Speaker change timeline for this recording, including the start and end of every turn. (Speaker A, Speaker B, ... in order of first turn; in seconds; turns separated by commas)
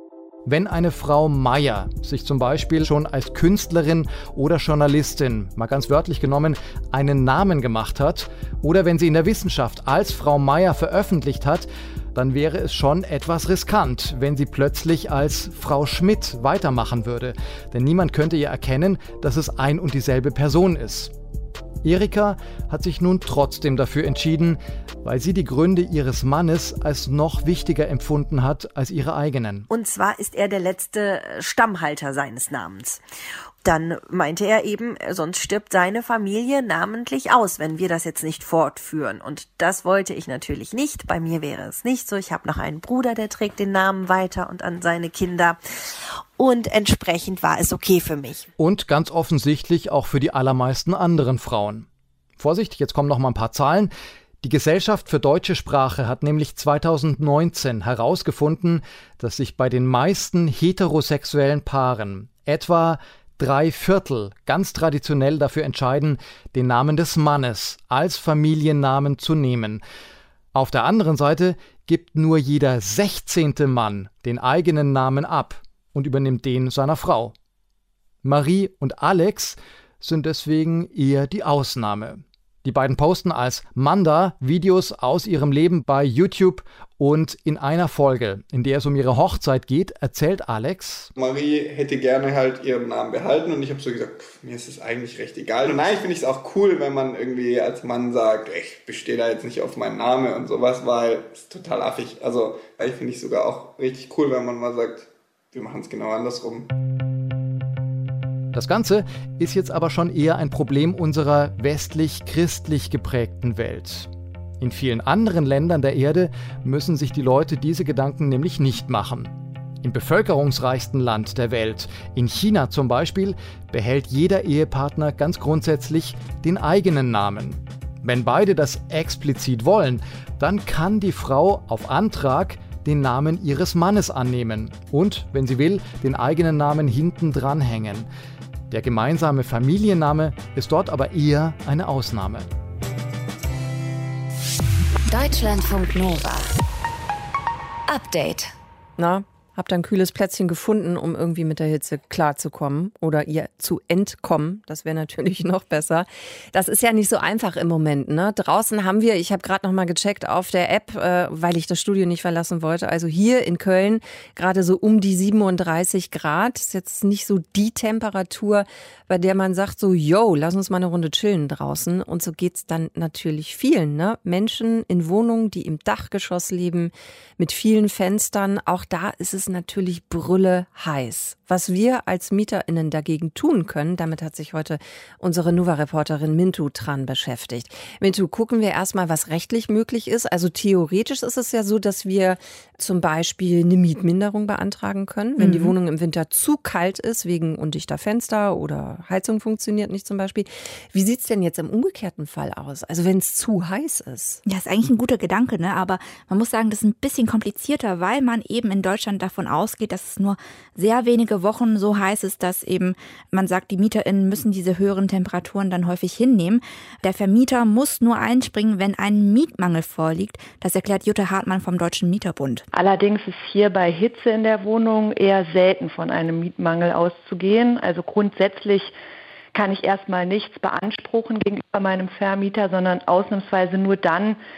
Speaker A: 0.5-21.1, Speaker A: 21.8-29.6, Speaker B: 29.7-33.0, Speaker B: 33.6-45.6, Speaker B: 46.4-48.5, Speaker A: 48.6-51.9, Speaker A: 52.4-69.8, Speaker A: 70.5-77.3, Speaker A: 78.2-91.1, Speaker C: 91.2-106.7, Speaker A: 108.5-114.1, Speaker A: 114.6-138.1, Speaker A: 138.7-142.5, Speaker D: 145.1-146.5, Speaker D: 147.9-148.5, Speaker E: 149.0-204.4, Speaker F: 195.4-195.7, Speaker F: 204.5-222.7, Speaker G: 222.7-228.9, Speaker G: 229.5-234.4